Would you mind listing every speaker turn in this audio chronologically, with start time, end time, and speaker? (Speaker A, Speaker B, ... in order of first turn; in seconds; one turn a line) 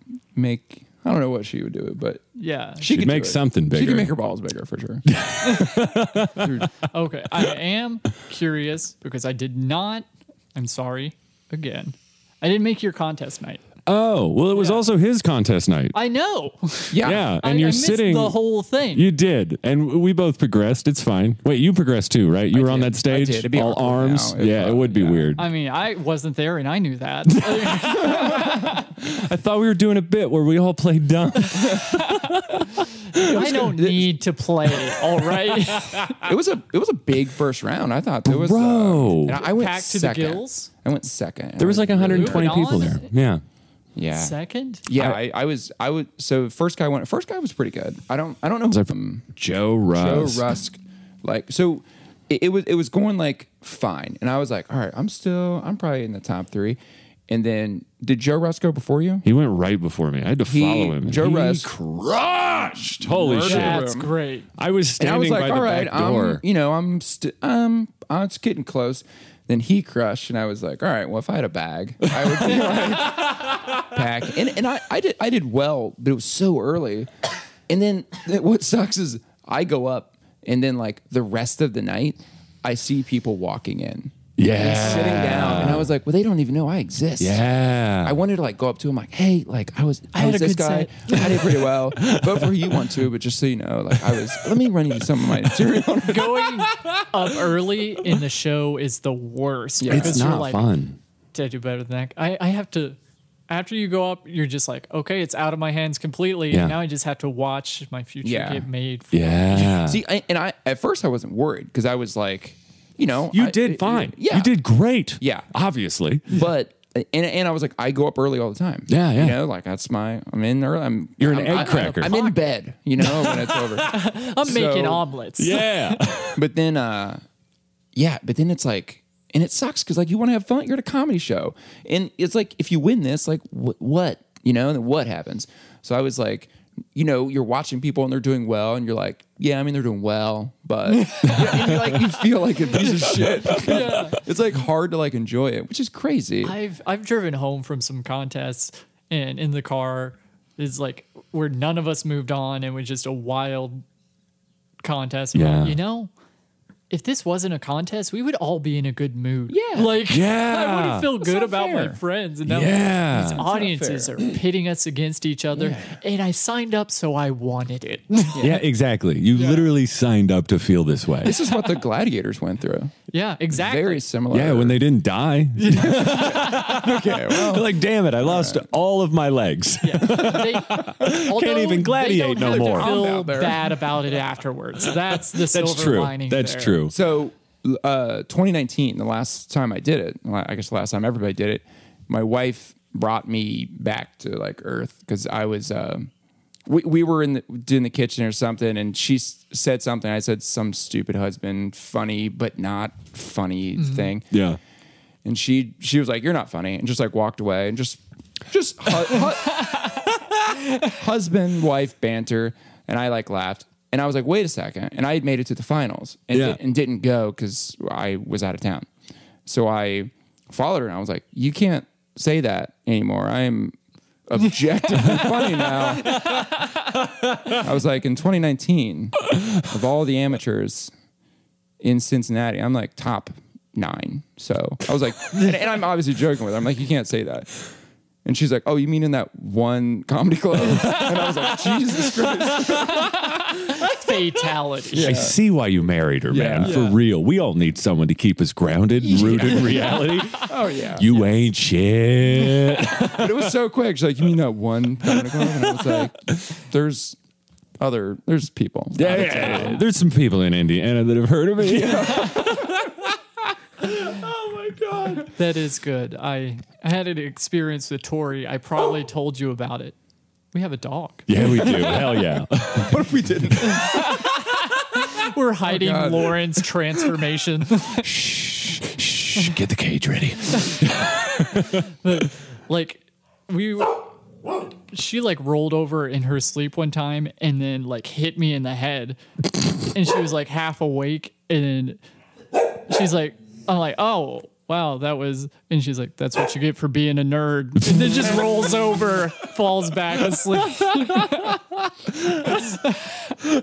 Speaker A: 0.3-2.2
Speaker B: 2.4-2.9
Speaker A: 2.8-5.0
Speaker C: 2.9-4.1
Speaker C: 5.1-6.7
Speaker B: 5.4-5.9
Speaker A: 6.4-6.7
Speaker B: 6.8-13.6
Speaker C: 13.8-15.9
Speaker B: 14.5-14.9
Speaker B: 15.9-19.1
Speaker A: 16.9-17.3
Speaker C: 17.0-18.4
Speaker C: 18.9-25.4
Speaker A: 22.5-25.4
Speaker B: 25.4-28.9
Speaker C: 27.4-33.2
Speaker A: 31.7-31.9
Speaker B: 33.1-36.2
Speaker A: 33.1-34.2
Speaker A: 36.1-42.9
Speaker C: 38.2-39.4
Speaker B: 39.4-40.7
Speaker C: 41.6-43.4
Speaker B: 42.1-43.1
Speaker A: 44.0-44.3
Speaker B: 44.1-44.9
Speaker A: 44.9-49.3
Speaker C: 48.7-50.5
Speaker A: 49.9-59.2
Speaker C: 59.2-63.9
Speaker A: 60.5-61.7
Speaker A: 62.9-64.1
Speaker B: 63.4-64.5
Speaker C: 64.6-66.4
Speaker A: 65.0-77.1
Speaker A: 77.7-87.4
Speaker C: 84.4-85.9
Speaker C: 87.2-88.2
Speaker A: 88.0-96.8
Speaker B: 90.1-91.5
Speaker C: 92.0-92.6
Speaker B: 96.0-100.7
Speaker A: 99.8-100.3
Speaker C: 99.9-101.0
Speaker B: 101.3-103.0
Speaker B: 103.5-109.7
Speaker C: 106.5-106.8
Speaker A: 108.2-108.7
Speaker C: 109.1-110.0
Speaker A: 109.5-114.5
Speaker C: 113.3-116.4
Speaker A: 115.2-115.5
Speaker A: 116.3-125.0
Speaker C: 118.9-119.4
Speaker C: 121.2-122.2
Speaker B: 121.5-122.4
Speaker C: 123.0-123.5
Speaker B: 123.8-126.0
Speaker C: 125.4-126.4
Speaker A: 126.3-127.2
Speaker A: 127.9-146.6
Speaker B: 140.9-141.7
Speaker C: 141.3-142.0
Speaker B: 142.8-144.2
Speaker C: 143.5-143.8
Speaker B: 146.4-153.8
Speaker B: 154.8-156.1
Speaker C: 155.3-155.8
Speaker B: 156.9-168.4
Speaker A: 159.5-159.9
Speaker C: 160.1-161.1
Speaker A: 161.2-162.0
Speaker C: 162.4-163.4
Speaker A: 163.1-164.2
Speaker A: 168.3-168.6
Speaker C: 168.4-171.4
Speaker B: 169.3-169.7
Speaker A: 171.2-172.9
Speaker B: 173.1-174.0
Speaker A: 173.5-174.8
Speaker C: 174.3-182.9
Speaker B: 175.6-176.6
Speaker A: 175.9-178.6
Speaker B: 179.8-186.9
Speaker A: 182.5-183.7
Speaker C: 185.3-186.9
Speaker A: 186.9-196.1
Speaker A: 196.7-204.3
Speaker B: 203.8-204.1
Speaker C: 204.3-204.6
Speaker A: 205.2-218.9
Speaker B: 209.6-210.0
Speaker C: 216.3-216.6
Speaker A: 219.4-223.7
Speaker A: 224.3-226.3
Speaker B: 226.2-226.4
Speaker A: 227.5-230.9
Speaker A: 231.8-237.5
Speaker A: 238.2-243.3
Speaker B: 242.7-245.2
Speaker A: 244.9-245.4
Speaker C: 245.0-253.5
Speaker A: 246.3-246.8
Speaker B: 246.6-247.0
Speaker A: 249.0-251.1
Speaker B: 250.2-250.5
Speaker A: 252.6-257.2
Speaker A: 257.8-259.8
Speaker C: 258.9-262.9
Speaker B: 259.4-259.8
Speaker A: 261.6-262.8
Speaker C: 264.1-265.2
Speaker A: 264.6-265.2
Speaker B: 265.3-269.9
Speaker B: 270.5-272.2
Speaker C: 271.3-273.1
Speaker A: 272.7-274.2
Speaker B: 273.6-278.1
Speaker A: 275.6-276.6
Speaker C: 277.9-281.8
Speaker B: 280.5-280.9
Speaker B: 281.5-284.1
Speaker B: 284.9-289.2
Speaker B: 289.9-292.0
Speaker B: 292.9-301.6
Speaker B: 302.4-303.4